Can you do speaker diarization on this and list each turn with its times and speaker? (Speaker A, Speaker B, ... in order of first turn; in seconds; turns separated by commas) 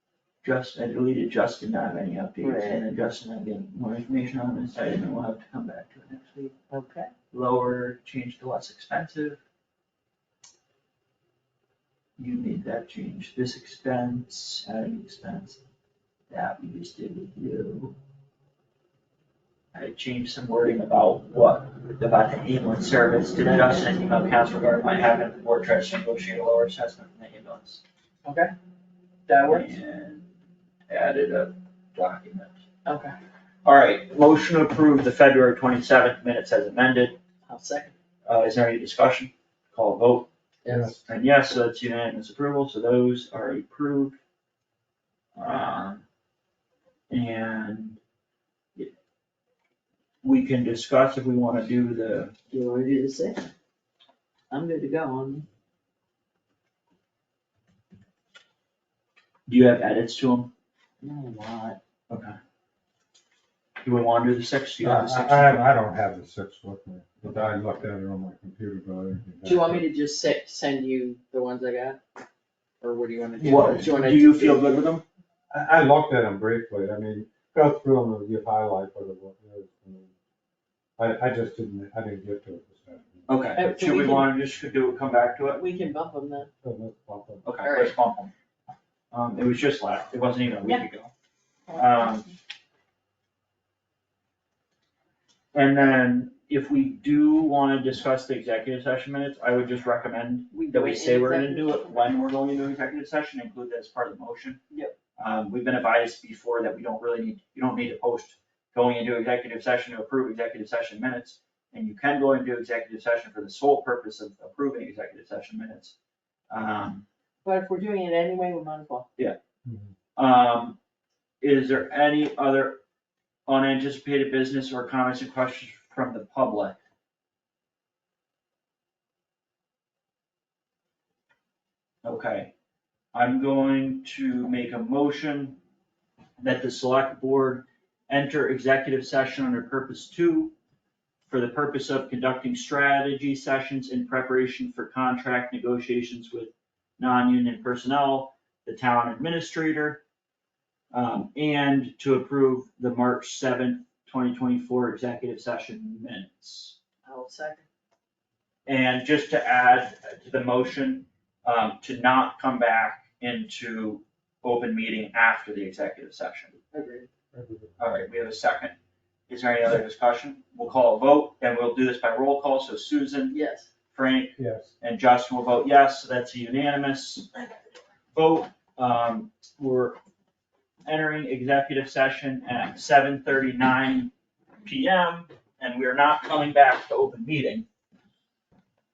Speaker A: 0.4-6.5, Speaker B: 2.4-2.8, Speaker B: 6.7-7.1, Speaker A: 7.3-9.4, Speaker A: 12.2-15.6, Speaker A: 16.3-17.9, Speaker A: 19.7-27.8, Speaker B: 28.2-28.5, Speaker B: 29.3-29.7, Speaker A: 29.4-30.3, Speaker A: 30.9-32.5, Speaker B: 32.8-33.1, Speaker A: 33.6-37.2, Speaker B: 37.5-37.9, Speaker A: 38.2-40.3, Speaker B: 40.6-41.0, Speaker C: 40.7-41.0, Speaker A: 41.1-44.2, Speaker A: 45.4-46.0, Speaker A: 47.1-48.0, Speaker A: 50.2-52.3, Speaker B: 52.5-53.5, Speaker B: 54.5-55.4, Speaker A: 59.5-60.5, Speaker B: 61.0-61.8, Speaker A: 62.1-62.4, Speaker A: 63.8-65.7, Speaker C: 64.8-69.8, Speaker B: 69.4-72.0, Speaker B: 72.8-74.8, Speaker C: 73.4-73.9, Speaker A: 73.4-75.0, Speaker C: 75.5-80.1, Speaker C: 81.0-83.3, Speaker A: 83.3-85.6, Speaker B: 83.5-84.3, Speaker B: 85.5-86.5, Speaker C: 86.6-87.4, Speaker A: 87.4-88.3, Speaker B: 87.6-87.9, Speaker A: 89.1-91.1, Speaker B: 91.7-92.3, Speaker A: 91.7-92.3, Speaker A: 95.5-104.6, Speaker B: 100.5-102.0, Speaker A: 105.2-116.0, Speaker A: 116.5-117.0, Speaker B: 117.4-119.1, Speaker C: 119.6-119.9, Speaker A: 120.2-120.8, Speaker A: 121.4-122.8, Speaker A: 123.5-126.8, Speaker A: 132.0-132.5, Speaker A: 133.1-135.6, Speaker A: 136.4-140.5, Speaker A: 141.3-150.0, Speaker A: 150.9-156.8, Speaker B: 157.0-157.7, Speaker A: 158.7-166.6, Speaker B: 166.7-167.1, Speaker C: 167.3-167.8, Speaker A: 167.8-168.7, Speaker A: 169.3-173.4, Speaker B: 173.3-173.7, Speaker A: 173.9-177.5, Speaker C: 174.4-174.7, Speaker A: 178.1-180.0, Speaker A: 180.8-184.1, Speaker A: 184.6-187.7